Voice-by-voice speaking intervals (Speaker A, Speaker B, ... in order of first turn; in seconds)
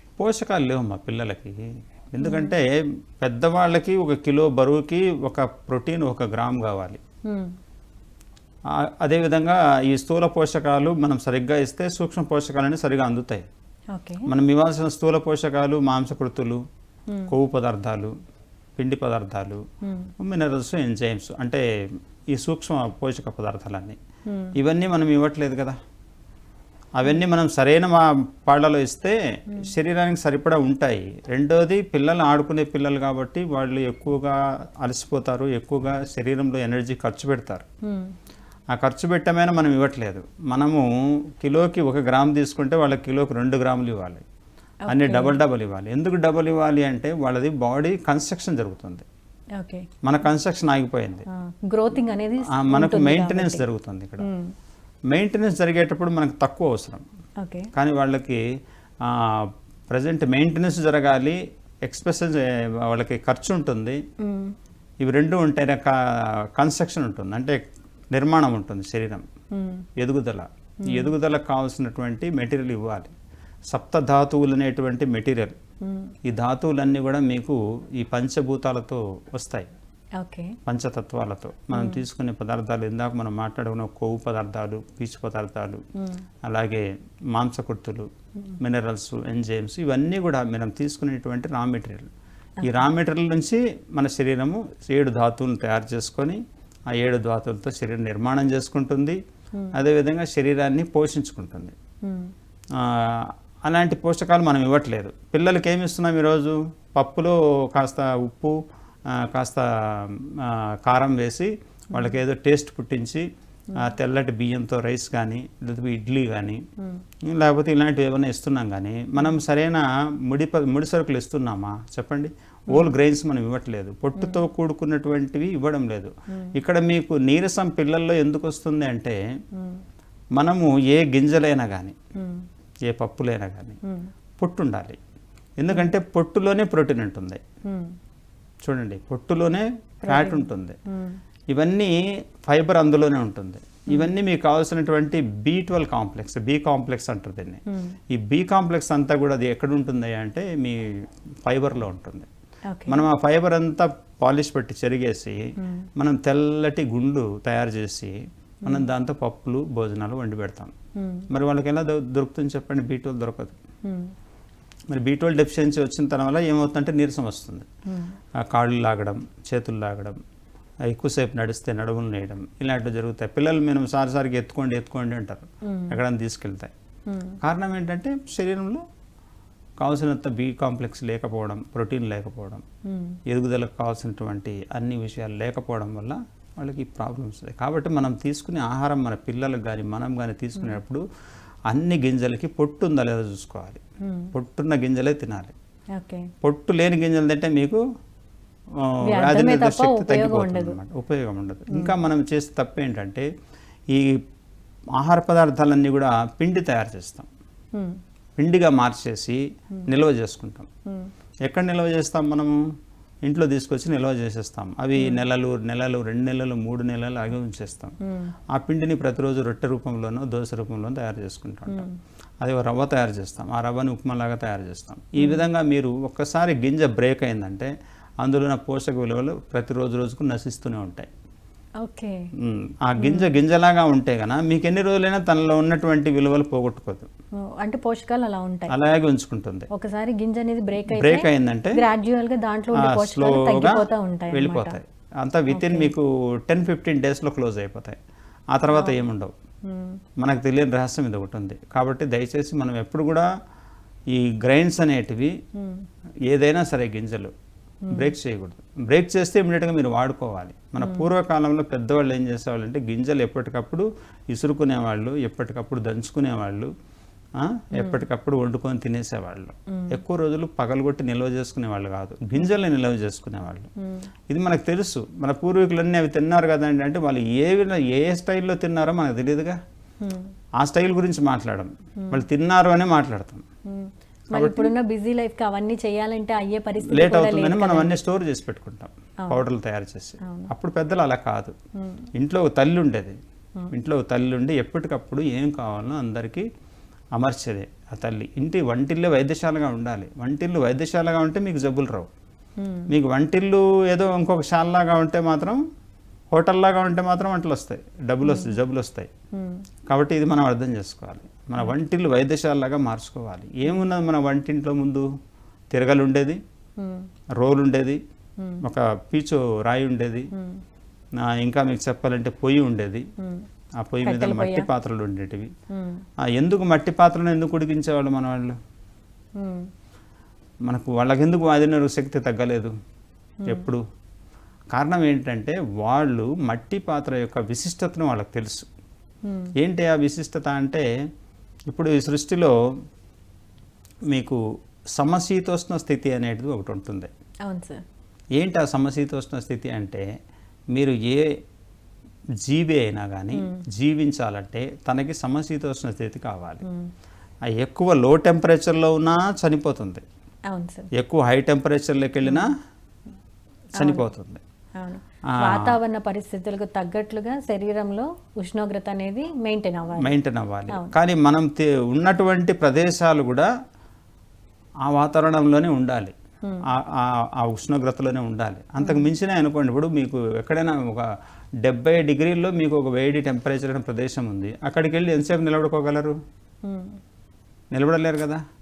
Speaker A: 0.2-1.6, 2.1-7.0, 8.7-13.4, 14.3-16.6, 17.3-18.1, 18.8-19.6, 20.2-21.6, 22.3-24.0, 24.6-25.8, 26.9-37.6, 38.7-40.9, 41.4-44.2, 44.9-49.0, 50.0-51.2, 52.5-54.3, 55.1-57.0, 57.7-58.4, 59.0-64.0, 65.0-65.9, 66.5-67.6, 68.1-69.2, 70.0-73.1, 73.7-75.6, 76.2-79.7, 80.7-85.8, 86.5-88.1, 88.6-92.1, 92.6-96.4, 96.9-99.2, 99.7-101.7, 102.8-108.5, 109.2-113.2, 113.8-116.6, 117.2-129.2, 130.4-131.9, 132.9-133.8, 134.4-135.0, 135.6-137.4, 138.6-140.8, 141.5-141.9, 142.4-150.8, 151.4-152.3, 152.9-155.4, 155.9-160.7, 161.3-163.6, 164.9-167.7, 168.4-170.2, 170.9-176.7, 177.4-178.8, 179.8-182.6, 183.3-191.0, 191.7-193.8, 194.3-195.5, 196.4-197.8, 198.8-203.2, 203.9-204.2, 205.0-207.3, 208.4-210.7, 211.5-212.5, 213.2-217.9, 218.5-221.8, 222.4-231.1, 232.4-237.1, 238.7-239.7, 240.9-241.8, 242.8-248.0, 248.5-249.3, 250.2-253.3, 254.1-255.3, 256.3-257.3, 257.9-266.7, 267.4-273.7, 274.3-279.6, 280.6-283.4, 284.3-284.7, 286.9-291.5, 292.1-293.1, 293.7-296.4, 297.1-302.1, 302.9-305.6, 306.3-309.1, 309.9-315.1, 315.7-316.4, 317.4-318.0, 318.6-320.3, 321.2-323.0, 323.8-325.5, 326.3-328.5, 330.7-332.7, 333.5-333.8, 334.7-338.6, 339.6-340.8, 341.7-342.5, 344.1-344.4, 344.9-347.1, 348.4-350.0, 350.7-351.2, 352.4-356.6, 357.5-360.0, 361.0-362.5, 363.8-364.4, 365.4-365.8, 370.0-373.5, 374.8-376.1, 376.7-381.1, 381.6-386.1, 387.7-388.4
Speaker B: 2.2-2.5, 13.9-14.3, 19.8-20.1, 24.3-24.5, 37.9-38.1, 44.9-45.4, 49.6-49.9, 51.3-53.6, 54.2-54.5, 57.4-57.7, 64.2-64.5, 69.5-69.8, 70.8-71.1, 75.8-76.1, 80.2-80.5, 81.7-82.0, 102.0-102.3, 111.9-112.2, 124.2-124.4, 129.6-129.8, 132.2-132.5, 133.8-134.1, 137.7-137.9, 140.0-141.2, 147.7-147.9, 152.7-153.0, 155.6-155.8, 161.0-161.2, 163.8-164.1, 167.9-168.2, 175.7-176.0, 177.1-177.4, 182.8-183.2, 194.0-194.3, 196.0-196.3, 199.1-200.8, 218.1-218.3, 221.7-221.9, 231.8-232.2, 233.0-233.3, 237.4-238.7, 239.7-244.8, 245.5-245.9, 248.7-249.0, 249.7-250.0, 255.6-255.8, 257.9-258.1, 260.8-261.1, 273.8-274.1, 280.0-280.3, 283.7-287.9, 290.2-290.5, 291.8-292.1, 302.6-302.9, 308.2-308.5, 309.3-309.6, 316.8-317.1, 320.3-320.6, 324.0-324.7, 325.7-326.0, 329.4-329.7, 333.4-333.7, 339.2-339.5, 347.4-347.8, 360.5-360.9, 362.2-362.5, 364.8-370.1, 378.8-379.1, 386.6-387.0